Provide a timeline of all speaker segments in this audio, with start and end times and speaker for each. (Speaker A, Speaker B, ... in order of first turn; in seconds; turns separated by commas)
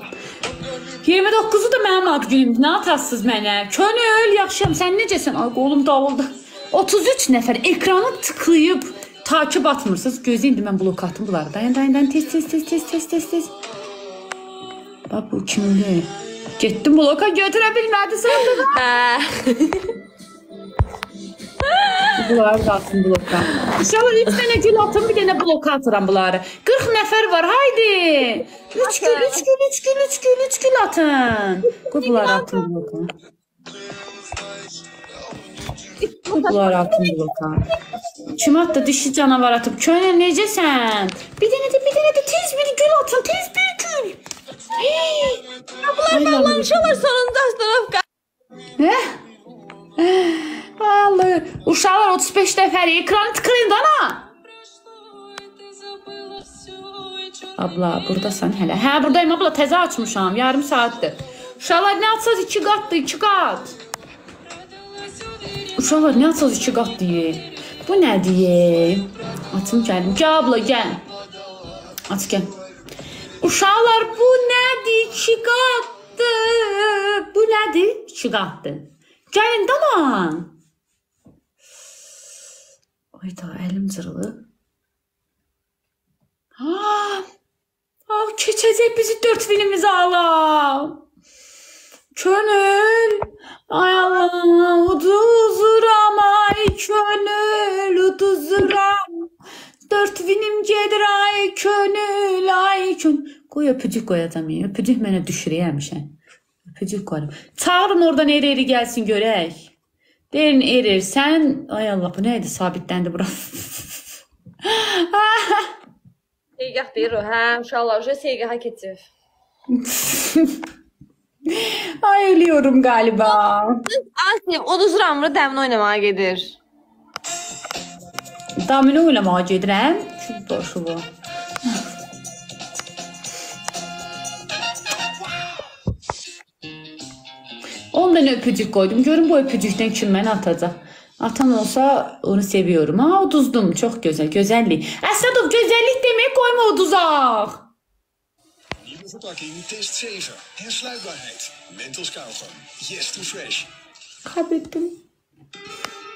Speaker A: 1.0-13.5, Speaker A: 15.1-18.8, Speaker B: 18.4-19.9, Speaker B: 21.6-22.1, Speaker A: 22.2-33.1, Speaker B: 28.7-29.4, Speaker B: 31.7-32.7, Speaker B: 36.0-37.1, Speaker A: 36.4-37.7, Speaker A: 38.3-44.2, Speaker A: 44.8-45.4, Speaker B: 45.8-48.0, Speaker A: 46.1-47.0, Speaker A: 48.8-49.1, Speaker A: 50.0-54.3, Speaker A: 57.5-63.8, Speaker A: 65.8-71.0, Speaker A: 72.1-72.5, Speaker A: 73.4-80.5, Speaker A: 83.1-84.4, Speaker A: 86.6-87.2, Speaker A: 88.1-91.0, Speaker A: 92.1-99.2, Speaker A: 99.9-106.1, Speaker A: 106.7-109.7, Speaker A: 110.3-114.0, Speaker A: 114.6-115.7, Speaker B: 116.6-119.0, Speaker A: 119.7-120.6, Speaker A: 121.5-123.8, Speaker B: 124.0-126.6, Speaker A: 128.6-131.1, Speaker A: 137.9-147.7, Speaker C: 148.8-153.7, Speaker A: 154.2-154.9